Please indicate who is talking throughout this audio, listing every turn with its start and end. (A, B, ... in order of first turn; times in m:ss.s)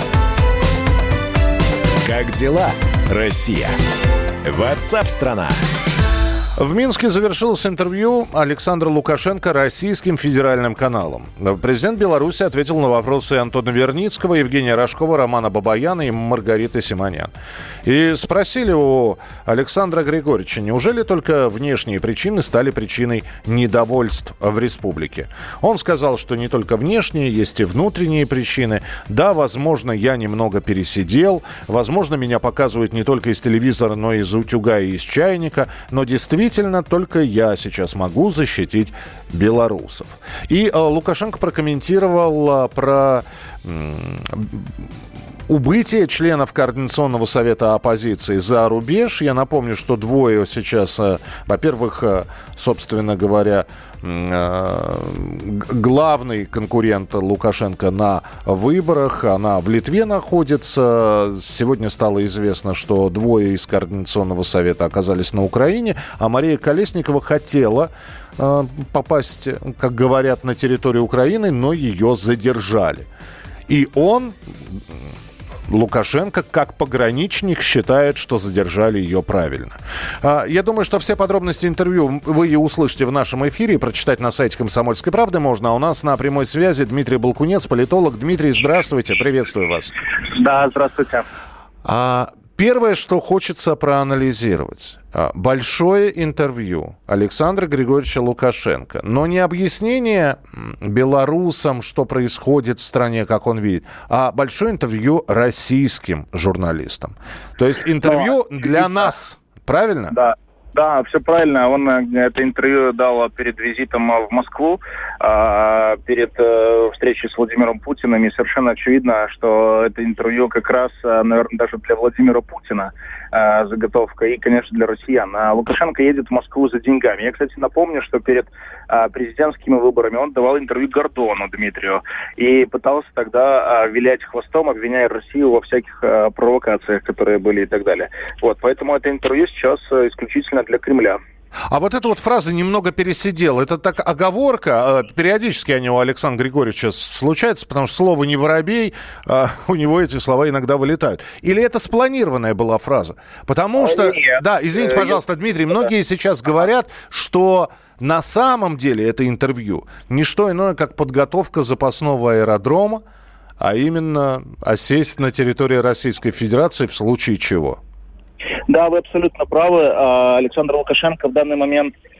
0:02.0-0:03.8 A
0:04.4-0:05.6 A
0:06.6-0:17.3 B
0:17.8-0:44.7 B
0:45.5-1:13.0 B
1:13.7-1:15.0 B
1:15.7-1:29.9 B
1:30.3-1:31.2 C
1:31.8-1:50.2 B
1:48.0-1:49.0 C
1:50.1-2:21.2 C
2:21.7-2:43.0 B
2:33.8-2:35.2 C
2:43.6-2:47.8 B
2:48.7-2:51.9 C